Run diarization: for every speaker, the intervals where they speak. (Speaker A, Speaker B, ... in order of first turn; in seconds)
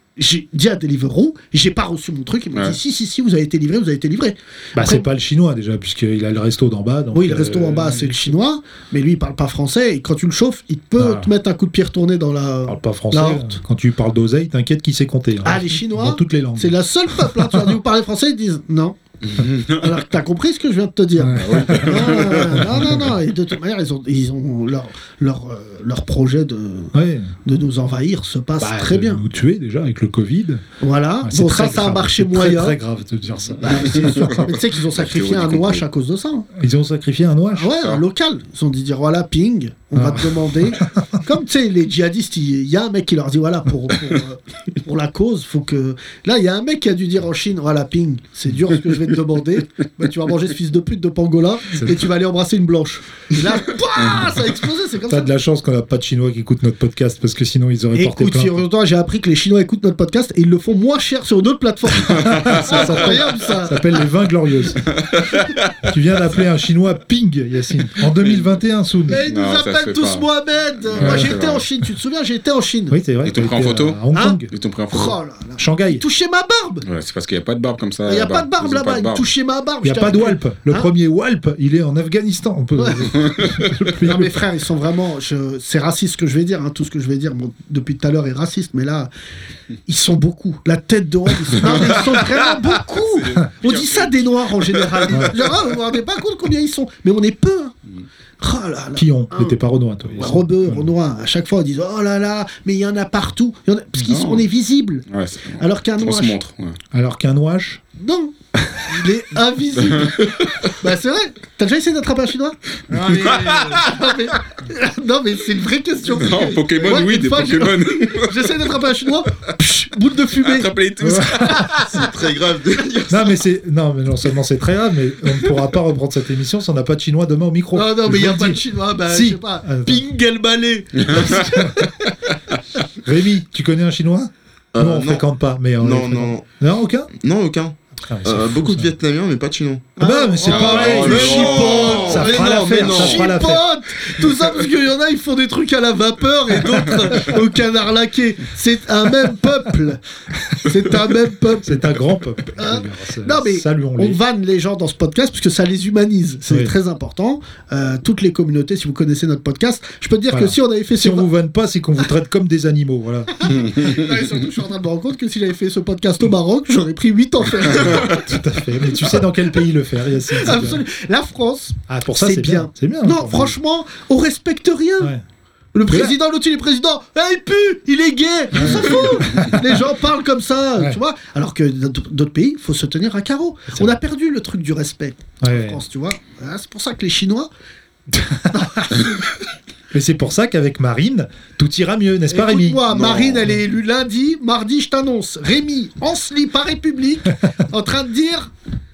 Speaker A: 0.2-5.0, 7.1-13.6, 15.4-19.0, 19.6-29.2, 30.8-32.8, 33.6-36.5, 37.5-55.3, 57.9-64.0, 69.1-73.0, 74.1-74.4, 74.9-76.8, 78.1-80.9, 82.8-83.3, 84.0-89.1, 89.9-97.7, 98.4-99.6, 100.2-105.0, 105.6-106.4, 108.0-120.7, 127.7-132.1, 140.0-150.0, 150.5-151.9, 152.6-161.3, 163.4-168.3, 170.3-175.1, 175.7-187.5, 188.5-189.2, 192.3-198.5
Speaker B: 4.7-8.3, 11.0-11.3, 12.7-17.7, 21.2-23.2, 26.9-27.4, 28.6-30.6, 31.2-34.5, 36.5-37.8, 39.9-41.2, 51.7-52.1, 55.1-58.6, 62.2-65.0, 65.8-69.2, 71.0-71.4, 72.9-74.5, 75.6-76.0, 79.8-84.4, 95.1-95.4, 99.0-100.9, 106.9-107.8, 113.0-113.3, 121.0-121.7, 123.1-130.1, 133.0-137.1, 138.0-138.9, 140.0-143.7, 151.6-154.2, 160.3-163.5, 167.7-170.8, 171.9-173.5, 175.9-176.2, 178.5-179.6, 183.7-183.9, 185.4-185.8, 188.1-189.0, 189.9-192.9
Speaker C: 19.2-20.0, 21.4-22.6, 33.9-35.8, 65.0-65.7, 69.2-70.2, 70.9-71.6, 73.2-75.2, 76.8-79.3, 91.6-95.5, 104.0-104.5, 105.1-106.8, 109.9-110.7, 112.9-114.0, 116.1-118.7, 120.4-122.0, 131.0-131.5, 140.6-141.1
Speaker D: 121.8-123.4, 134.7-135.2, 135.8-136.4, 137.2-139.9, 140.4-143.3